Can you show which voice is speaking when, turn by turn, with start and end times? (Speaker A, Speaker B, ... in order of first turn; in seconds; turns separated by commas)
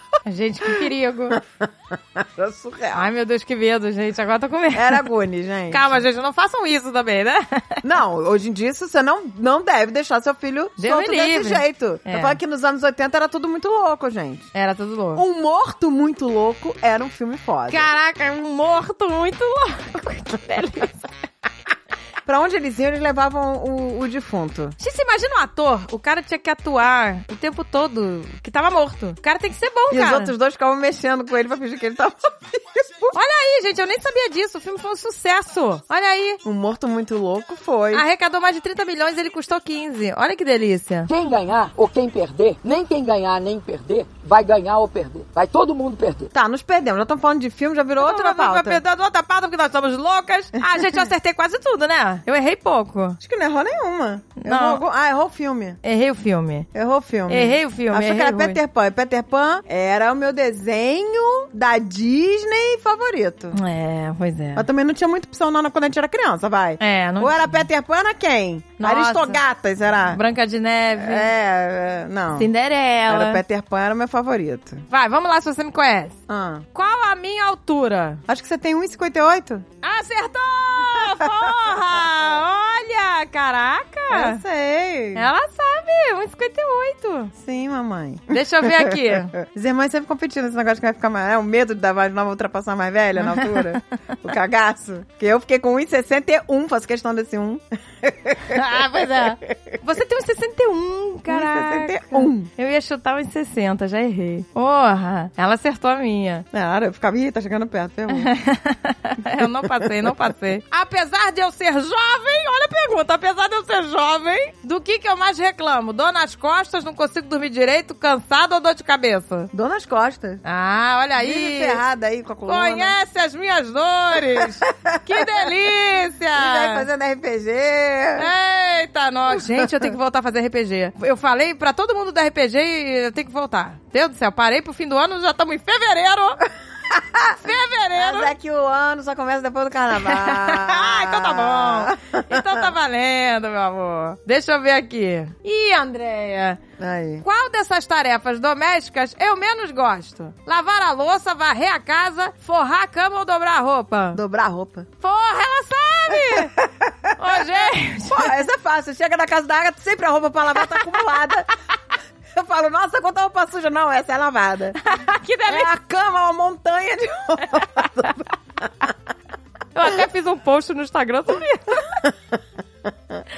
Speaker A: 0.2-1.4, Speaker B: 0.6-3.1, Speaker A: 2.9-5.0, Speaker B: 4.7-6.0, Speaker A: 5.7-7.8, Speaker B: 7.8-14.5, Speaker A: 10.8-12.4, Speaker A: 14.5-15.2, Speaker B: 15.1-17.9, Speaker A: 17.7-21.1, Speaker B: 22.2-24.8, Speaker A: 24.8-30.3, Speaker B: 29.9-33.1, Speaker A: 33.1-36.4, Speaker B: 36.4-38.0, Speaker A: 37.9-41.1, Speaker C: 41.1-46.3, Speaker B: 46.3-48.8, Speaker A: 48.0-53.2, Speaker B: 50.6-51.0, Speaker B: 53.2-55.8, Speaker A: 54.4-54.8, Speaker A: 55.8-56.7, Speaker B: 56.7-63.6, Speaker A: 57.3-58.6, Speaker A: 63.5-64.7, Speaker B: 64.5-70.2, Speaker A: 66.8-67.7, Speaker A: 68.8-69.4, Speaker A: 70.0-71.3, Speaker B: 71.0-72.5, Speaker A: 72.3-73.4, Speaker B: 73.1-74.8, Speaker A: 74.9-76.2, Speaker B: 76.3-76.7, Speaker A: 76.7-78.2, Speaker B: 78.3-79.7, Speaker A: 79.8-84.4, Speaker B: 81.0-81.5, Speaker B: 84.1-85.3, Speaker A: 85.1-87.3, Speaker B: 87.3-98.8, Speaker A: 88.3-89.3, Speaker A: 93.2-93.8, Speaker A: 98.5-106.5, Speaker B: 101.3-102.5, Speaker B: 106.5-108.3, Speaker A: 108.1-119.5, Speaker B: 109.4-110.1, Speaker B: 119.5-120.4, Speaker A: 120.4-121.8, Speaker B: 121.2-123.0, Speaker A: 122.5-126.9, Speaker B: 124.2-125.5, Speaker B: 126.3-128.3, Speaker A: 128.2-136.4, Speaker B: 129.3-129.9, Speaker B: 136.9-137.4, Speaker A: 137.3-138.3, Speaker B: 137.9-142.7, Speaker A: 139.9-146.6, Speaker B: 146.8-147.2, Speaker A: 147.2-154.2, Speaker B: 154.1-154.9, Speaker A: 155.0-156.5, Speaker B: 156.1-161.5, Speaker A: 157.2-158.3, Speaker B: 162.3-164.8, Speaker A: 164.8-165.7, Speaker B: 165.5-168.3, Speaker A: 169.7-171.9